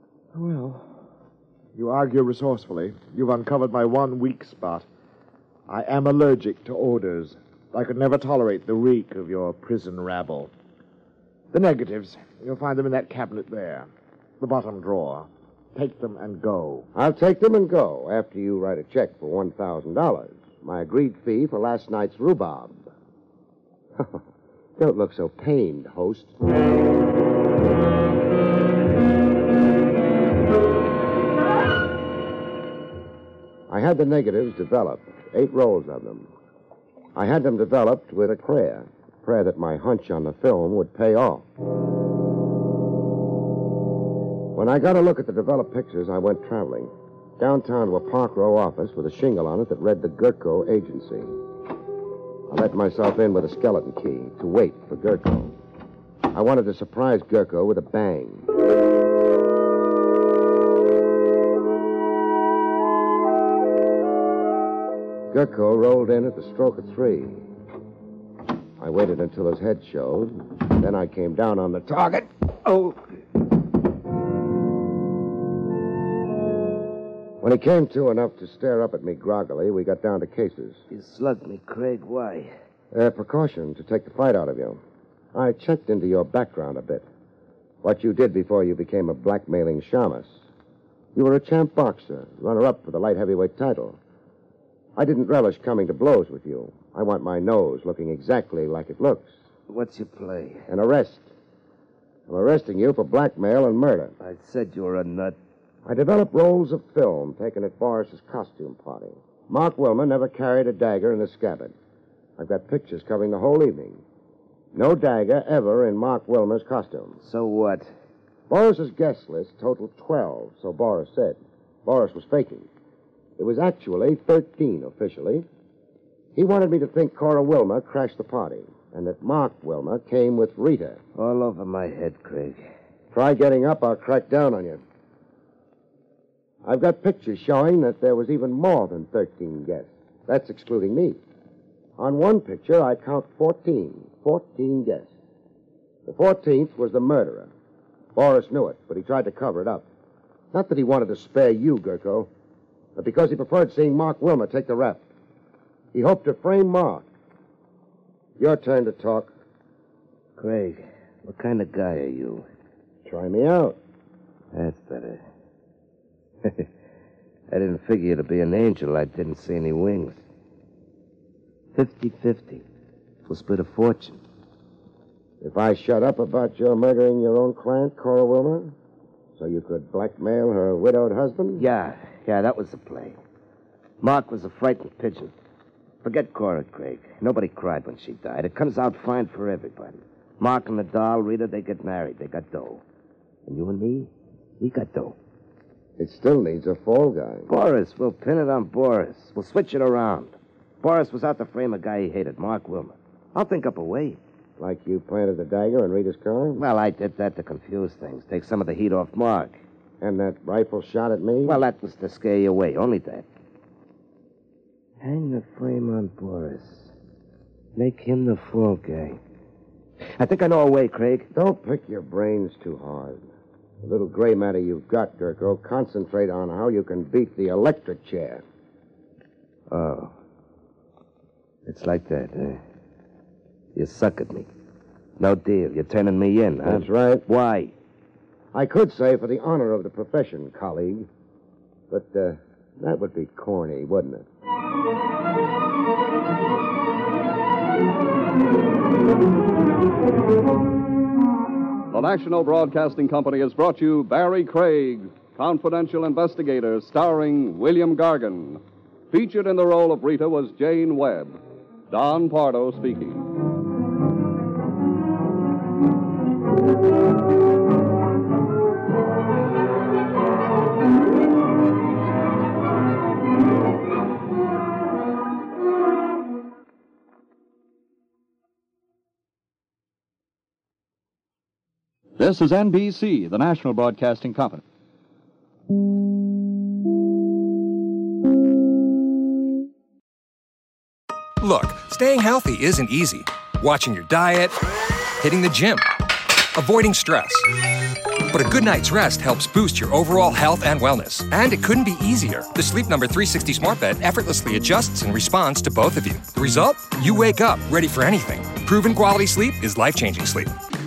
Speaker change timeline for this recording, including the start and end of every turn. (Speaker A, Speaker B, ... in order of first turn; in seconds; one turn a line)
Speaker A: 0.3-1.0
Speaker A: 1.8-4.8
Speaker A: 5.7-10.5
Speaker A: 11.5-13.9
Speaker A: 14.4-16.9
Speaker B: 16.9-22.9
Speaker B: 24.8-26.3
Speaker B: 33.7-36.3
Speaker B: 37.1-41.5
Speaker B: 44.5-51.4
Speaker B: 52.5-55.6
Speaker B: 56.3-58.5
Speaker B: 65.3-67.5
Speaker B: 68.8-72.3
Speaker C: 72.7-73.0
Speaker B: 77.4-80.8
Speaker C: 80.9-82.5
Speaker B: 82.9-84.8
Speaker B: 85.3-87.1
Speaker B: 87.8-90.4
Speaker B: 91.2-94.0
Speaker B: 95.0-99.3
Speaker C: 99.7-100.6
Speaker B: 100.7-101.3
Speaker B: 102.3-104.2
Speaker C: 104.2-105.3
Speaker B: 105.8-111.8
Speaker B: 112.4-114.0
Speaker B: 114.8-117.2
Speaker C: 117.2-117.9
Speaker B: 118.5-122.7
Speaker B: 123.4-125.5
Speaker B: 126.3-131.0
Speaker C: 131.2-132.6
Speaker B: 133.1-134.8
Speaker B: 136.6-141.2
Speaker B: 142.0-145.1
Speaker B: 146.1-147.5
Speaker B: 148.2-149.9
Speaker B: 150.5-152.3
Speaker B: 153.0-155.0
Speaker B: 155.9-157.1
Speaker B: 158.4-159.3
Speaker C: 160.4-162.5
Speaker B: 163.1-163.8
Speaker C: 164.5-165.2
Speaker C: 167.5-170.2
Speaker C: 171.8-172.7
Speaker C: 173.3-174.2
Speaker B: 175.4-178.8
Speaker B: 179.4-181.7
Speaker C: 181.6-183.2
Speaker C: 184.0-185.3
Speaker C: 186.0-192.8
Speaker C: 193.5-195.2
Speaker B: 196.0-197.5
Speaker C: 197.5-204.2
Speaker B: 204.6-206.7
Speaker C: 206.6-209.6
Speaker B: 210.0-211.6
Speaker C: 211.4-213.3
Speaker C: 215.0-216.9
Speaker C: 217.8-219.2
Speaker C: 220.2-221.3
Speaker B: 221.3-223.2
Speaker B: 223.8-228.4
Speaker C: 229.7-230.1
Speaker C: 231.7-232.6
Speaker C: 233.8-234.5
Speaker C: 235.2-237.7
Speaker B: 236.6-237.2
Speaker B: 238.5-241.1
Speaker B: 241.9-244.3
Speaker D: 251.9-261.4
Speaker D: 261.9-263.2
Speaker E: 282.2-284.6
Speaker F: 291.4-294.6
Speaker F: 295.2-295.9
Speaker F: 296.6-297.5
Speaker F: 298.3-310.5